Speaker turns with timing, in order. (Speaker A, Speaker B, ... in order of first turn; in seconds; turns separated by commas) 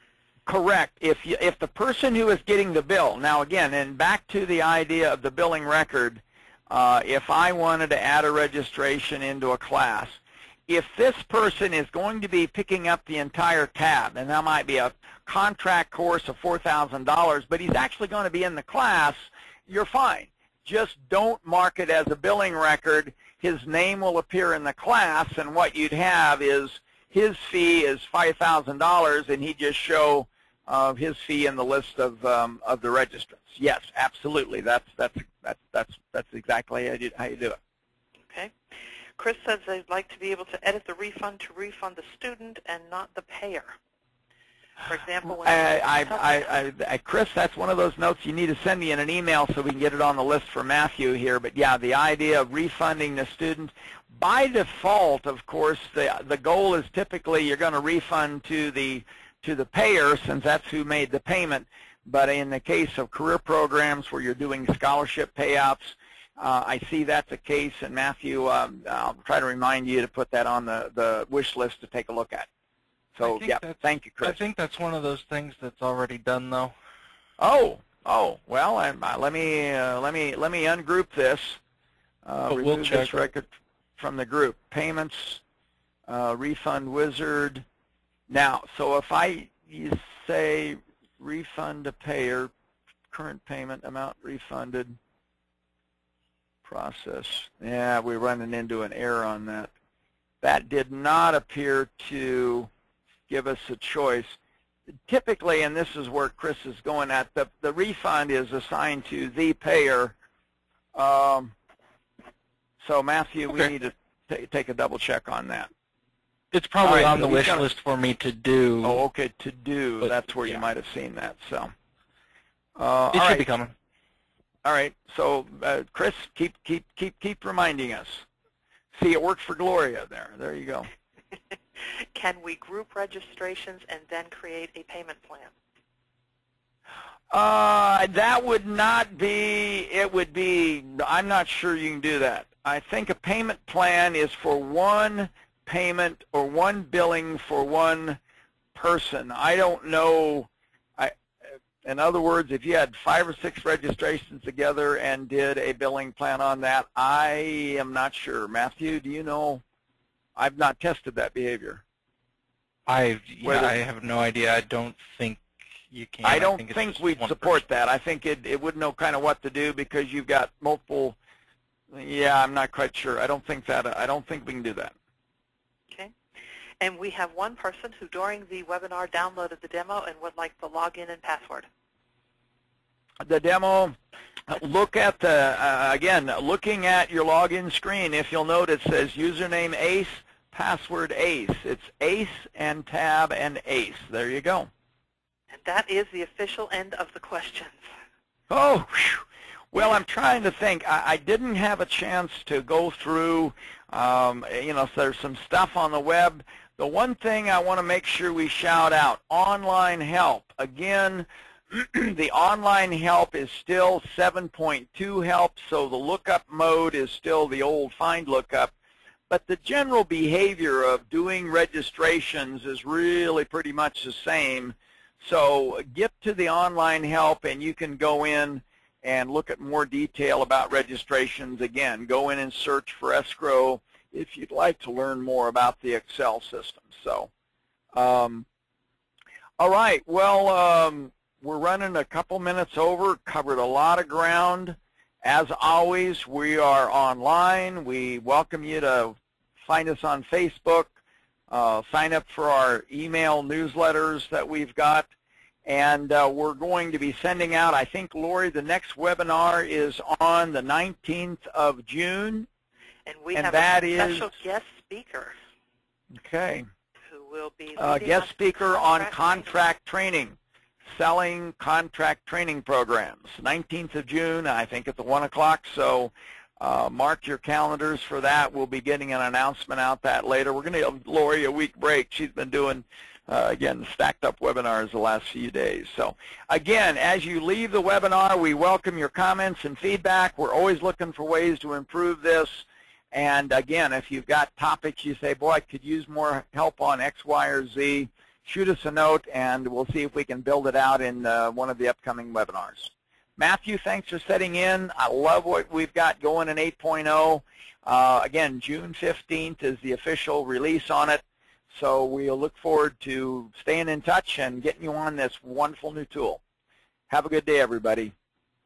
Speaker A: 0.5-37.6, Speaker B: 39.2-43.8, Speaker B: 44.9-46.5, Speaker A: 45.4-72.5, Speaker A: 73.2-74.4, Speaker C: 73.2-76.7, Speaker A: 77.4-81.6, Speaker A: 82.2-85.4, Speaker C: 82.5-83.3, Speaker A: 86.1-87.6, Speaker A: 88.3-92.5, Speaker A: 93.1-95.0, Speaker A: 96.7-99.7, Speaker A: 100.4-102.7, Speaker A: 103.3-104.4, Speaker A: 105.1-110.2, Speaker A: 111.0-111.5, Speaker A: 112.8-115.7, Speaker C: 116.5-119.0, Speaker A: 116.8-117.7, Speaker A: 118.8-121.7, Speaker C: 120.0-120.6, Speaker A: 122.8-123.5, Speaker C: 123.1-123.7, Speaker A: 124.7-128.2, Speaker A: 128.9-130.9, Speaker B: 132.0-135.5, Speaker A: 137.3-148.2, Speaker A: 148.7-151.1, Speaker A: 151.8-159.6, Speaker A: 160.4-161.8, Speaker C: 162.9-167.6, Speaker A: 163.4-163.8, Speaker A: 166.2-171.2, Speaker A: 171.9-174.9, Speaker B: 176.8-181.7, Speaker A: 183.2-183.9, Speaker A: 184.5-194.7, Speaker B: 195.5-197.8, Speaker A: 198.5-218.7, Speaker A: 219.3-237.3, Speaker A: 237.9-238.5, Speaker A: 239.6-250.9, Speaker A: 251.5-255.1, Speaker A: 255.7-262.5, Speaker B: 263.1-265.4, Speaker A: 263.3-264.3, Speaker A: 266.1-266.7, Speaker B: 267.1-269.5, Speaker A: 267.8-270.4, Speaker A: 270.9-316.4, Speaker A: 317.1-318.1